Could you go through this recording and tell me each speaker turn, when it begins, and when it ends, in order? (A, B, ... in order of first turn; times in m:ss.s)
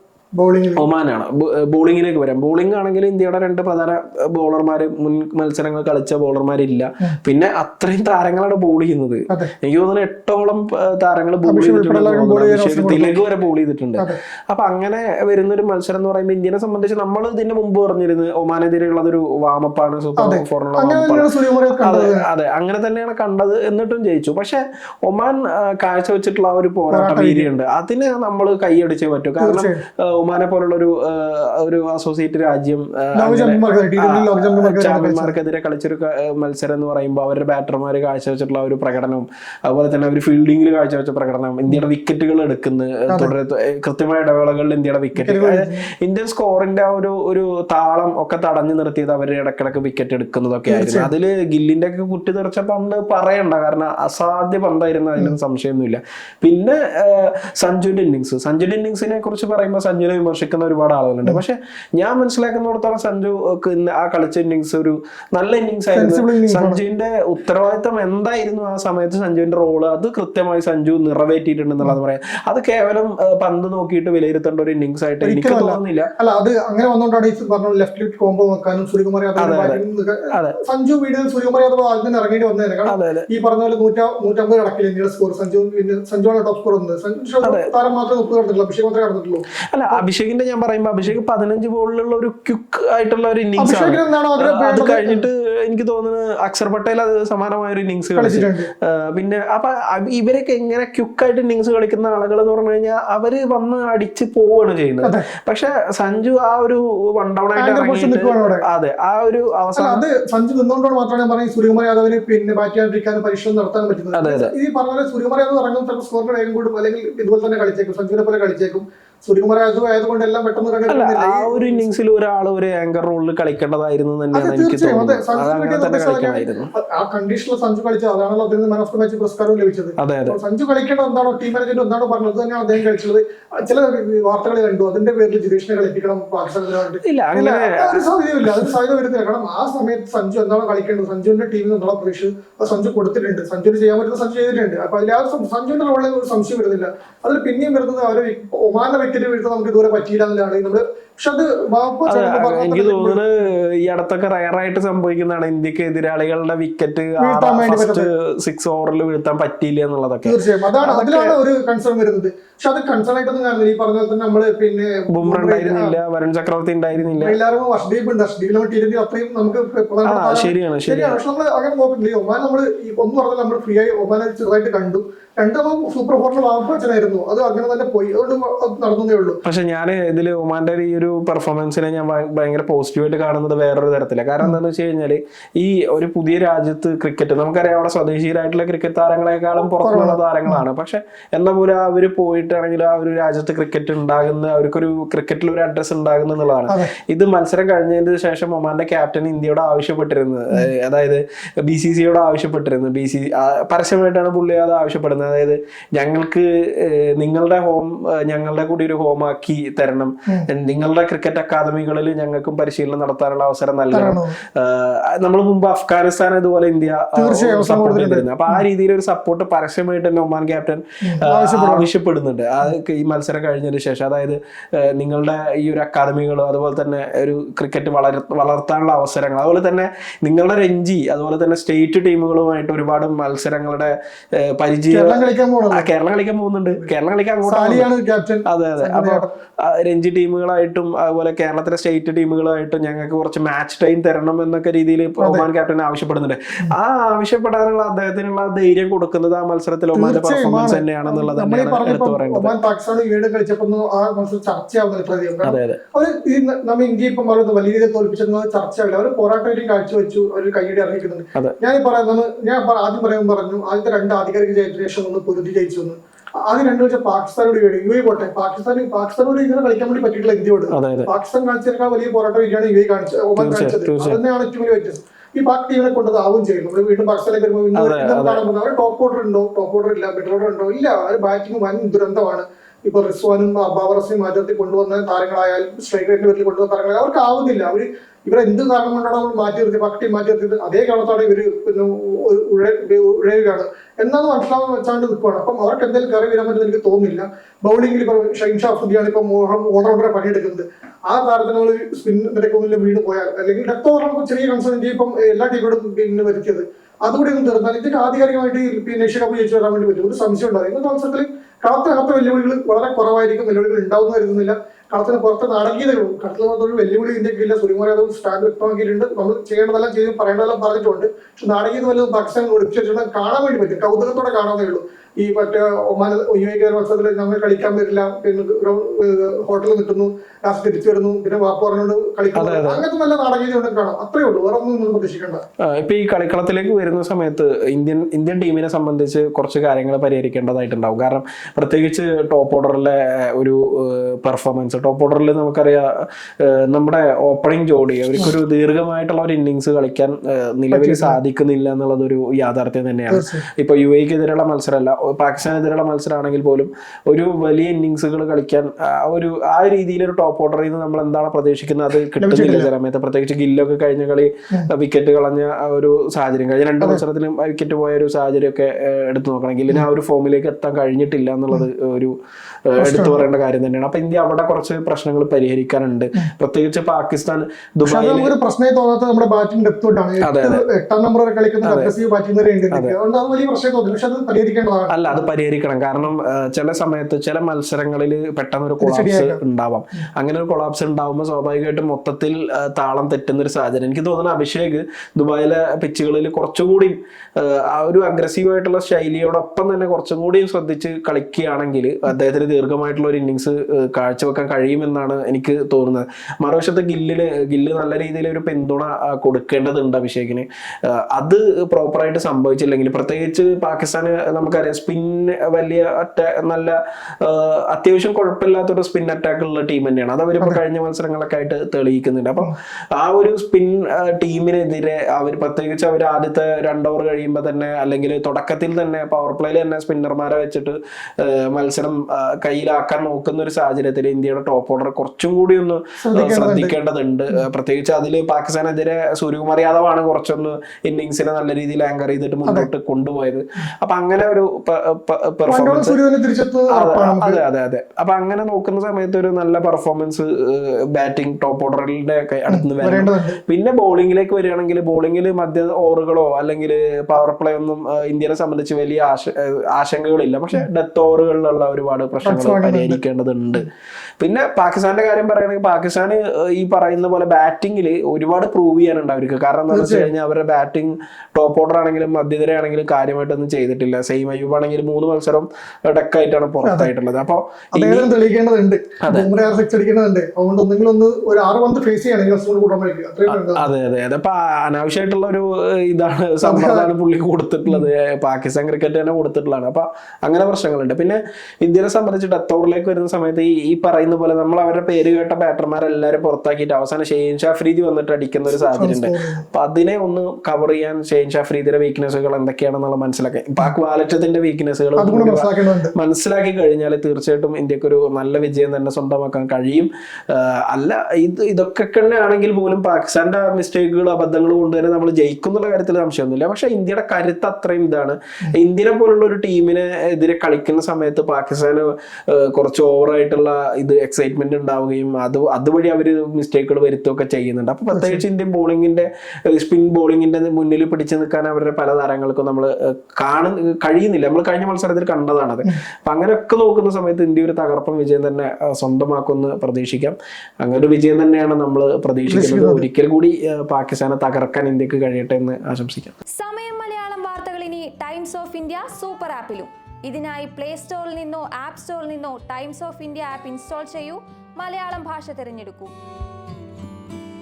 0:00.4-0:00.8 A
0:00.8-0:21.3 B
0:11.4-0:13.2 A
0:20.2-0:22.2 A
0:21.8-1:16.1 B
0:26.9-0:27.5 A
0:29.4-0:29.8 A
0:33.2-0:35.3 A
0:43.1-0:43.3 A
0:45.2-0:45.9 A
0:50.7-0:51.1 A
1:05.9-1:06.8 A
1:15.2-1:30.0 A
1:19.4-1:19.8 B
1:22.9-1:23.3 B
1:29.7-1:50.0 B
1:33.6-1:35.2 A
1:38.2-1:38.7 A
1:47.6-1:48.6 A
1:49.8-2:01.8 A
1:54.1-1:54.5 B
2:00.9-2:06.7 B
2:04.3-2:33.2 A
2:10.0-2:10.4 B
2:17.0-2:18.7 B
2:32.1-2:41.3 B
2:37.2-2:38.1 A
2:40.2-2:46.0 A
2:45.1-2:47.4 B
2:47.0-2:59.4 A
2:50.0-2:51.2 B
2:59.4-3:55.2 B
3:09.8-3:10.6 A
3:16.7-3:16.9 A
3:33.9-3:34.4 A
3:37.2-3:38.6 A
3:41.0-3:41.9 A
3:54.9-3:55.9 A
3:55.7-3:57.9 B
3:57.4-3:59.3 A
3:58.5-4:12.6 B
4:05.2-4:05.5 A
4:09.9-5:35.4 A
4:15.4-4:15.8 B
4:30.7-4:31.1 B
4:33.4-4:34.2 B
4:37.8-4:38.4 B
5:32.3-5:32.8 B
5:35.6-6:12.1 B
5:50.7-5:51.2 A
5:53.1-5:53.4 A
6:02.2-6:02.7 A
6:12.6-6:18.3 B
6:12.8-6:13.2 A
6:17.8-6:24.9 A
6:20.2-6:20.6 B
6:21.6-6:21.9 B
6:24.9-7:26.0 B
6:28.8-6:29.4 A
7:16.0-7:16.7 A
7:25.5-7:27.4 A
7:26.7-7:43.7 B
7:32.5-7:33.4 A
7:42.2-7:43.0 A
7:44.2-7:58.1 B
7:49.7-7:50.1 A
7:56.6-7:56.9 A
7:57.7-8:03.7 A
7:59.0-7:59.3 B
8:03.3-9:06.1 B
8:06.4-8:06.9 A
8:18.5-8:19.4 A
8:25.0-8:25.9 A
8:47.9-8:48.2 A
9:02.3-9:02.8 A
9:06.4-9:15.9 C